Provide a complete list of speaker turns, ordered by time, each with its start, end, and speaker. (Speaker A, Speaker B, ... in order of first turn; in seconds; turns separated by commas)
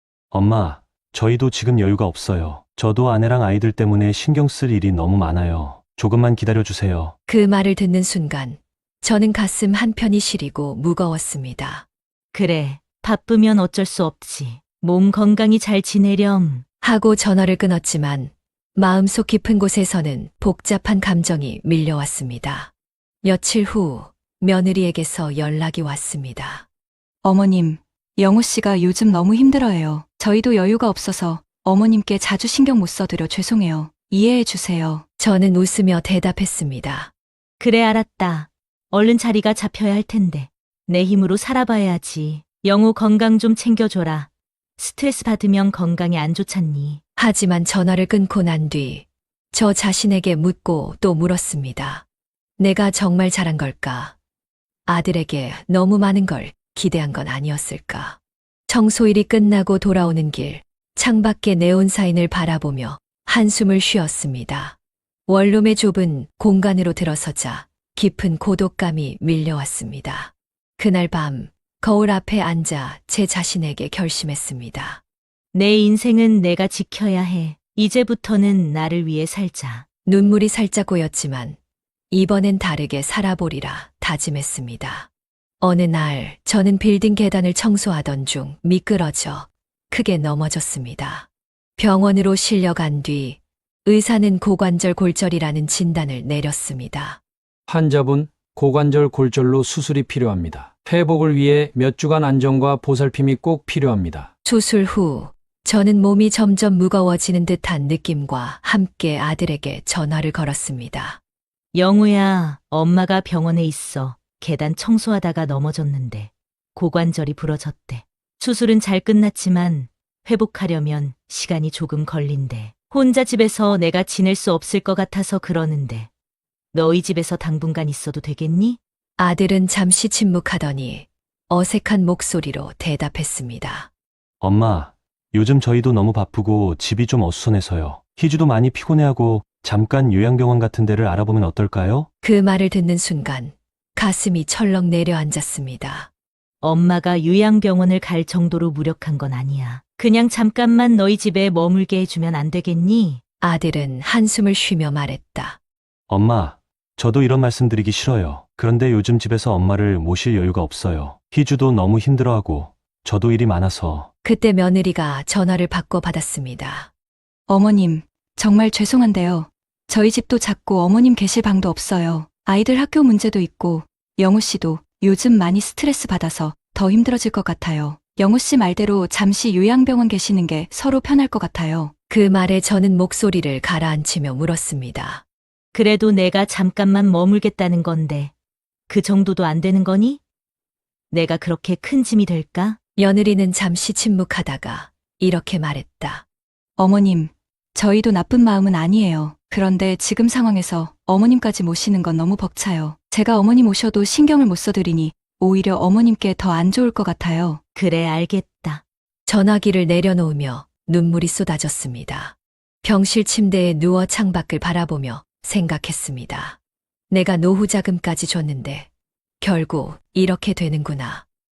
Speaker A: 0.3-7.2, Speaker B: 7.3-11.9, Speaker C: 12.3-16.6, Speaker B: 16.8-22.7, Speaker B: 23.2-26.7, Speaker D: 27.2-35.0, Speaker B: 35.2-37.1, Speaker C: 37.6-47.0, Speaker B: 47.2-52.0, Speaker B: 52.6-54.2, Speaker B: 54.9-58.2, Speaker B: 58.7-75.0, Speaker C: 75.5-79.9, Speaker B: 80.1-81.6, Speaker B: 82.1-85.1, Speaker B: 85.6-97.2, Speaker E: 97.7-104.3, Speaker B: 104.5-111.2, Speaker C: 111.8-126.1, Speaker C: 126.7-128.8, Speaker B: 129.2-133.9, Speaker A: 134.4-142.1, Speaker B: 142.2-146.1, Speaker C: 146.6-153.2, Speaker B: 153.4-155.6, Speaker A: 156.1-164.1, Speaker B: 164.2-166.9, Speaker D: 167.5-181.9, Speaker B: 182.1-185.2, Speaker C: 185.7-188.3, Speaker C: 188.9-190.2, Speaker C: 191.1-192.8, Speaker B: 193.0-196.2, Speaker D: 196.8-207.6, Speaker C: 207.8-208.8, Speaker B: 209.3-216.6, Speaker B: 217.1-218.9, Speaker B: 219.4-221.3